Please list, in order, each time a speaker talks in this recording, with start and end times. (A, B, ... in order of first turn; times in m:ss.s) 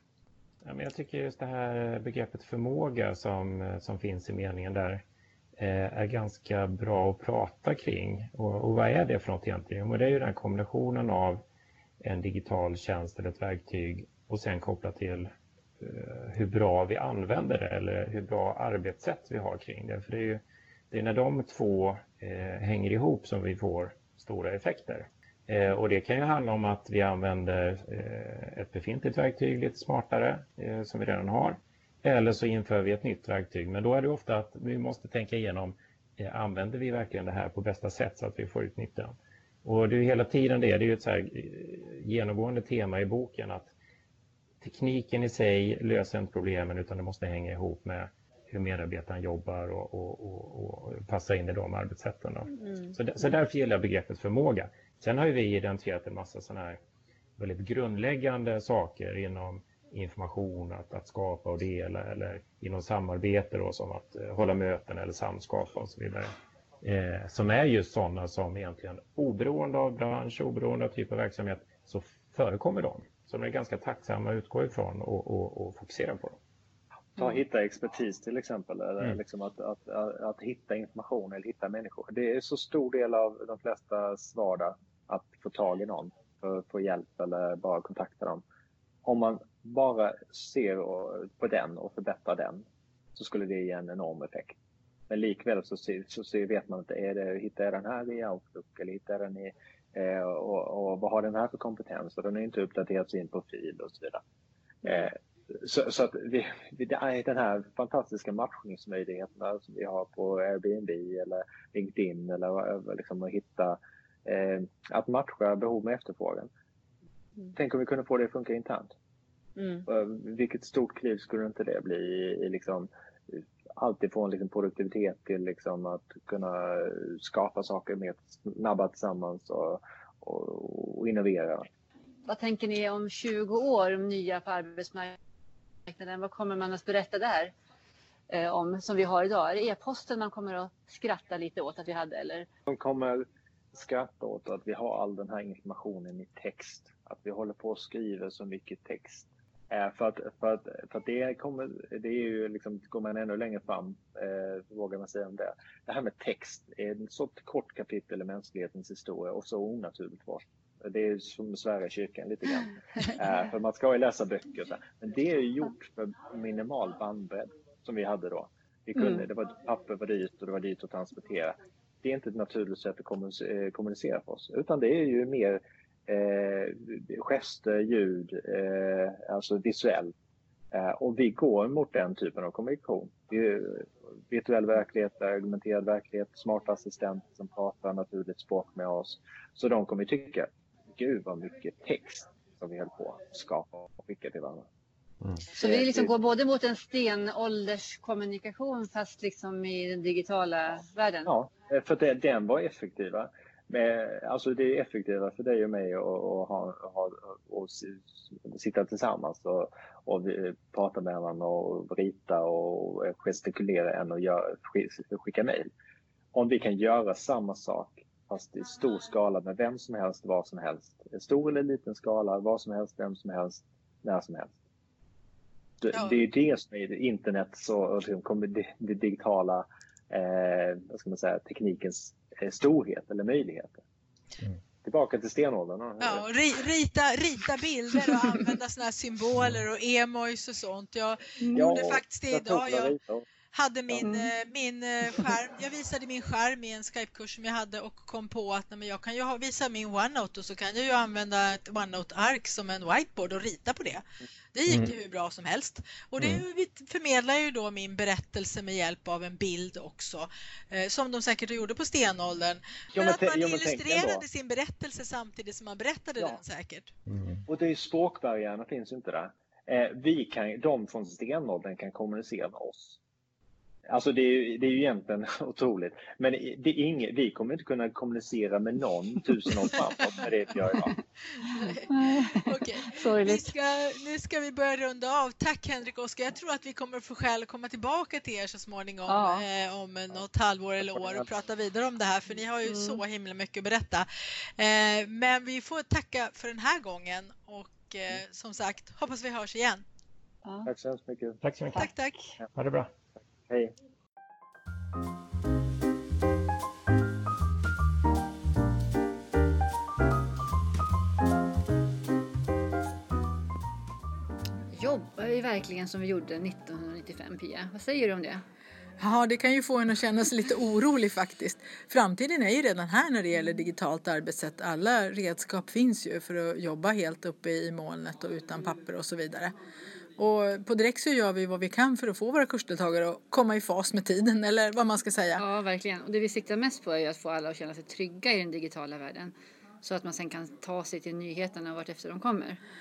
0:00.6-0:05.0 A
0:05.6-0:11.4 A
0:12.0-0:43.7 A
0:44.6-0:56.8 A
0:57.4-1:16.4 A
1:17.2-1:28.4 B
1:29.0-1:32.6 B
1:33.2-1:34.6 B
1:35.1-1:44.2 B
1:44.8-1:56.5 B
1:57.5-1:58.9 B
1:59.8-2:11.7 B
2:12.2-2:15.2 C
2:15.9-2:17.5 C
2:18.3-2:22.5 C
2:22.7-3:00.1 B
3:00.7-3:14.6 B
3:15.6-3:21.3 C
3:15.6-3:16.1 B
3:21.2-3:35.7 B
3:36.3-3:44.5 B
3:45.8-3:53.8 B
3:45.9-3:46.2 D
3:54.8-3:56.2 B
3:56.0-4:02.9 D
3:59.4-3:59.6 A
4:01.5-4:03.3 B
4:03.5-4:26.9 D
4:04.0-4:04.3 C
4:14.7-4:14.9 A
4:22.9-4:24.2 B
4:27.1-4:27.4 A
4:27.5-4:33.0 B
4:33.9-4:40.9 B
4:41.4-4:54.1 D
4:41.9-4:43.4 C
4:49.1-4:49.4 C
4:50.9-4:51.2 B
4:52.7-4:53.0 C
4:54.6-4:59.8 D
5:00.4-5:00.7 C
5:00.6-5:01.4 B
5:01.4-5:01.9 A
5:01.7-5:02.3 D
5:02.5-5:02.9 A
5:03.5-5:03.7 B
5:14.7-5:18.4 E
5:19.0-5:29.5 F
5:30.2-5:35.4 F
5:35.4-5:42.6 E